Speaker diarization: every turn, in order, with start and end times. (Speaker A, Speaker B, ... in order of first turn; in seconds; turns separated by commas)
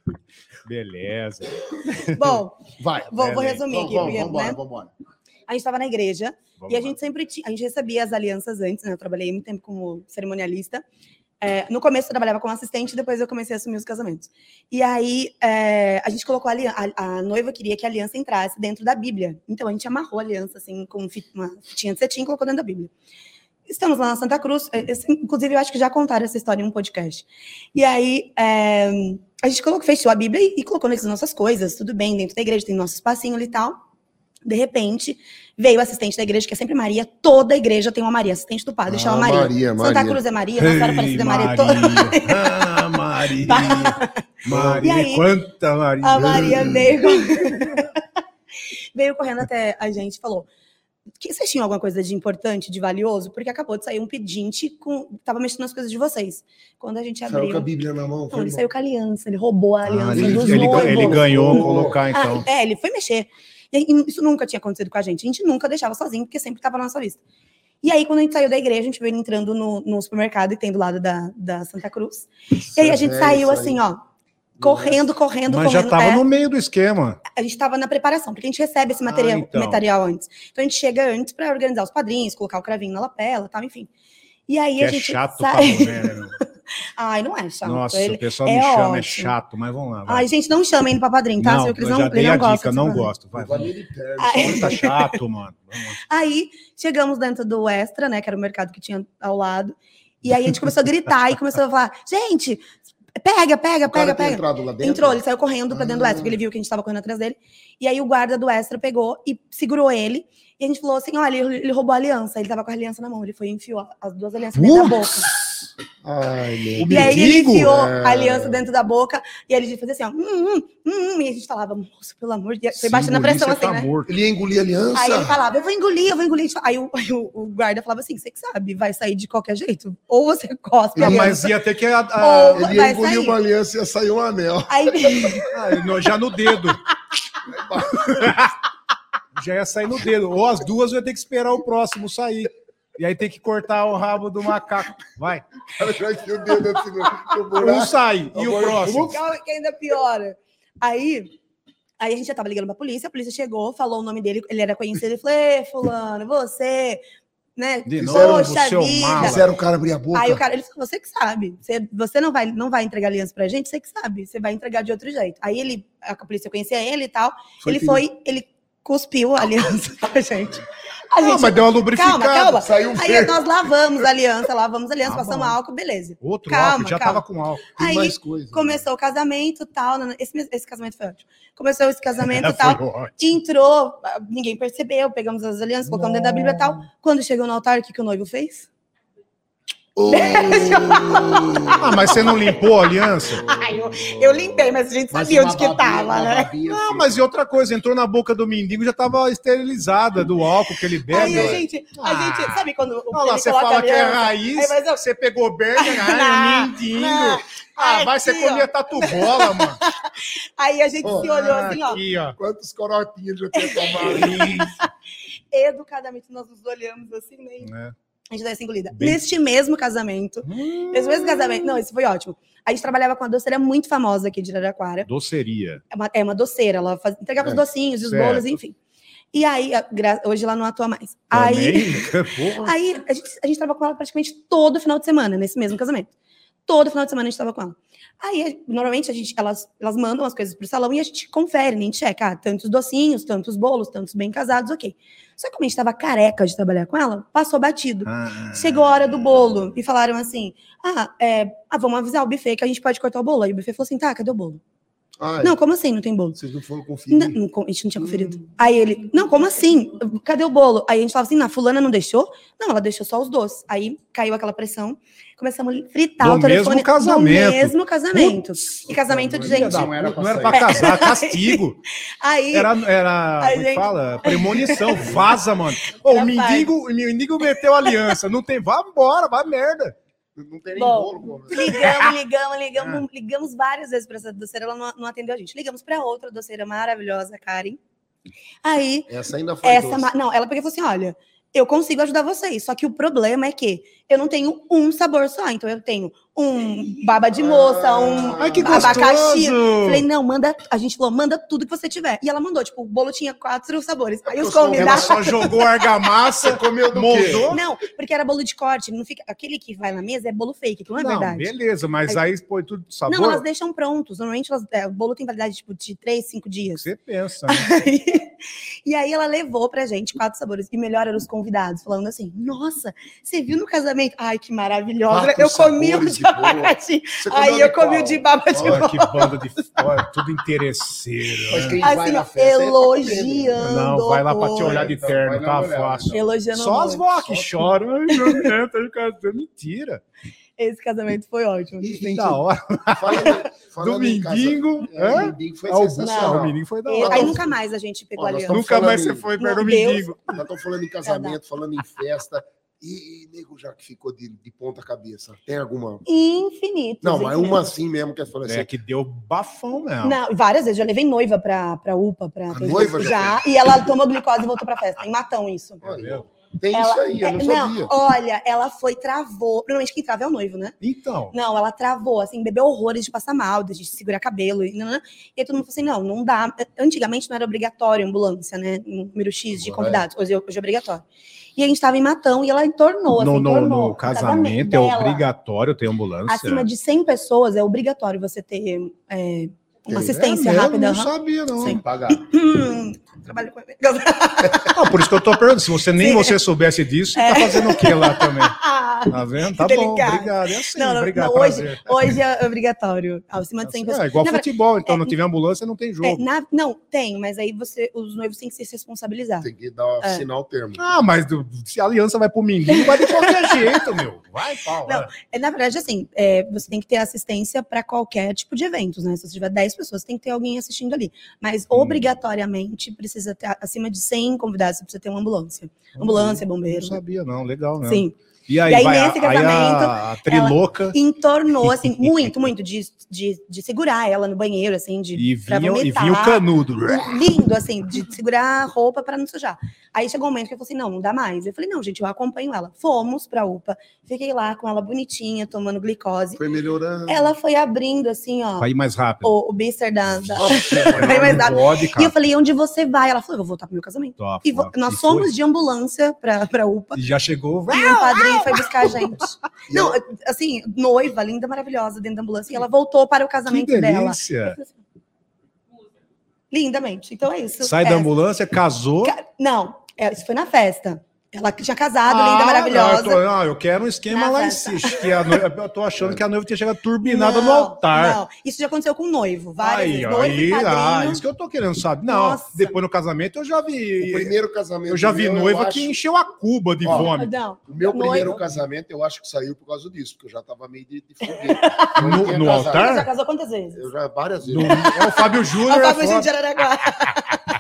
Speaker A: 0.7-2.4, Speaker B: 2.1-4.6, Speaker C: 2.8-4.9, Speaker B: 5.5-10.8, Speaker A: 6.6-7.0, Speaker B: 11.4-22.9, Speaker B: 23.7-33.8, Speaker B: 34.5-42.6, Speaker C: 38.9-40.2, Speaker A: 40.6-46.8, Speaker B: 43.5-44.2, Speaker C: 44.5-44.9, Speaker B: 44.8-45.3, Speaker B: 46.0-48.0, Speaker C: 46.1-47.0, Speaker B: 49.0-50.5, Speaker B: 51.2-57.7, Speaker C: 57.3-58.7, Speaker B: 58.3-67.2, Speaker A: 59.9-62.5, Speaker C: 60.1-62.0, Speaker B: 67.8-74.0, Speaker C: 72.7-73.8, Speaker C: 74.6-75.0, Speaker B: 74.6-76.2, Speaker A: 75.5-77.2, Speaker B: 77.3-83.9, Speaker A: 79.1-79.8, Speaker B: 84.5-86.1, Speaker A: 84.8-86.3, Speaker B: 87.0-89.3, Speaker A: 87.6-90.3, Speaker B: 90.1-93.1, Speaker A: 91.4-93.7, Speaker C: 93.3-94.8, Speaker B: 94.2-95.2, Speaker A: 94.3-96.0, Speaker B: 96.1-115.3, Speaker C: 103.9-106.4, Speaker A: 114.5-115.7, Speaker C: 116.0-118.6, Speaker A: 116.8-117.7, Speaker B: 116.8-123.9, Speaker A: 122.8-124.1, Speaker C: 124.1-125.4, Speaker B: 124.9-131.5, Speaker C: 130.9-131.4, Speaker A: 131.0-132.7, Speaker B: 132.2-133.4, Speaker C: 132.5-135.4, Speaker B: 134.7-135.5, Speaker A: 135.5-136.8, Speaker C: 137.4-138.3, Speaker A: 137.9-138.6, Speaker A: 139.3-145.4, Speaker C: 145.7-149.2, Speaker A: 147.5-149.2, Speaker B: 149.0-151.3, Speaker B: 152.0-157.0, Speaker B: 157.6-159.4, Speaker A: 157.9-159.5, Speaker C: 158.0-158.6, Speaker C: 159.2-160.4, Speaker B: 160.1-177.2, Speaker C: 167.6-168.1, Speaker A: 171.2-172.7, Speaker C: 172.5-173.5, Speaker A: 175.0-175.6, Speaker A: 176.2-177.7, Speaker B: 177.8-188.7, Speaker C: 177.8-178.8, Speaker A: 182.2-183.3, Speaker A: 185.9-186.7, Speaker C: 190.0-192.5, Speaker B: 190.1-192.3, Speaker A: 191.8-193.4, Speaker C: 193.2-197.2, Speaker B: 193.5-196.5, Speaker A: 196.7-209.8, Speaker B: 201.1-205.0, Speaker C: 201.1-201.6, Speaker B: 205.8-212.0, Speaker C: 211.0-214.6, Speaker A: 211.1-212.4, Speaker B: 213.6-214.9, Speaker A: 214.0-214.7, Speaker B: 215.5-217.7, Speaker A: 217.6-217.9, Speaker B: 218.3-225.1, Speaker A: 218.9-219.2, Speaker A: 220.4-221.8, Speaker A: 225.1-225.8, Speaker B: 225.9-228.8, Speaker A: 228.0-228.6, Speaker B: 229.3-236.1, Speaker A: 231.3-232.8, Speaker B: 236.7-254.6, Speaker A: 248.1-248.9, Speaker C: 255.2-255.6, Speaker B: 255.4-256.4, Speaker C: 256.4-257.4, Speaker B: 257.1-269.9, Speaker A: 266.2-268.4, Speaker C: 269.0-270.8, Speaker A: 269.4-271.8, Speaker B: 270.5-272.7, Speaker A: 272.5-280.0, Speaker B: 273.4-275.2, Speaker B: 276.1-276.7, Speaker B: 277.5-277.9, Speaker C: 280.4-281.9, Speaker B: 280.8-287.8, Speaker A: 281.6-282.1, Speaker B: 288.6-289.1, Speaker C: 289.1-290.1, Speaker B: 289.6-305.5, Speaker C: 297.3-299.1, Speaker A: 298.4-300.0, Speaker C: 304.3-305.4, Speaker A: 304.8-307.6, Speaker C: 306.4-307.6, Speaker B: 307.4-311.5, Speaker A: 311.0-313.4, Speaker B: 313.1-316.9, Speaker A: 316.8-317.7, Speaker B: 317.5-318.3, Speaker B: 318.9-329.4, Speaker C: 325.1-328.9, Speaker A: 328.6-331.8, Speaker C: 331.5-333.6, Speaker B: 331.8-334.9, Speaker A: 333.6-340.0, Speaker C: 334.6-336.4, Speaker B: 336.1-337.1, Speaker C: 337.2-337.8, Speaker B: 338.1-338.5, Speaker B: 340.6-342.4, Speaker C: 341.8-342.3, Speaker A: 342.0-347.4, Speaker C: 342.9-347.5, Speaker B: 346.0-350.4, Speaker C: 348.2-349.3, Speaker A: 348.5-350.4, Speaker C: 350.3-356.1, Speaker B: 351.0-351.4, Speaker B: 356.1-357.7, Speaker C: 357.0-358.7, Speaker A: 358.5-360.2, Speaker B: 360.0-365.8, Speaker C: 362.5-363.5, Speaker C: 365.8-367.9, Speaker A: 365.8-366.2, Speaker B: 366.7-370.8, Speaker A: 370.8-371.3, Speaker B: 371.3-381.1, Speaker C: 379.5-380.1, Speaker B: 381.6-385.3, Speaker A: 383.2-386.7, Speaker B: 386.3-394.8, Speaker C: 389.9-390.2, Speaker A: 389.9-391.8, Speaker C: 391.6-392.2, Speaker A: 394.7-398.6, Speaker B: 396.0-396.4, Speaker B: 397.1-405.1, Speaker A: 399.1-402.1, Speaker A: 403.6-406.2, Speaker B: 406.0-409.5, Speaker C: 409.4-410.8, Speaker A: 410.8-415.1, Speaker B: 412.7-413.8, Speaker B: 414.9-427.0, Speaker A: 421.7-422.1, Speaker A: 426.0-431.0, Speaker B: 427.8-428.1, Speaker B: 428.7-446.4, Speaker A: 431.6-432.4, Speaker A: 435.2-437.2, Speaker C: 446.4-447.3, Speaker B: 447.1-448.7, Speaker A: 448.6-449.4, Speaker B: 449.2-457.0, Speaker A: 450.1-452.1, Speaker C: 450.3-451.6, Speaker A: 454.2-455.3, Speaker A: 456.9-459.1, Speaker B: 457.7-464.8, Speaker C: 459.7-460.0, Speaker A: 463.5-464.6, Speaker B: 466.5-468.1, Speaker A: 467.6-469.1, Speaker B: 469.0-473.2, Speaker A: 472.1-478.2, Speaker B: 474.1-475.1, Speaker B: 477.0-481.2, Speaker A: 479.6-484.3, Speaker B: 482.1-482.8, Speaker C: 484.0-486.0, Speaker A: 484.9-487.3, Speaker C: 486.8-487.1, Speaker B: 486.9-488.4, Speaker C: 487.7-493.0, Speaker B: 491.3-493.9, Speaker A: 492.0-493.1, Speaker C: 493.8-494.9, Speaker A: 494.5-496.3, Speaker B: 494.7-497.4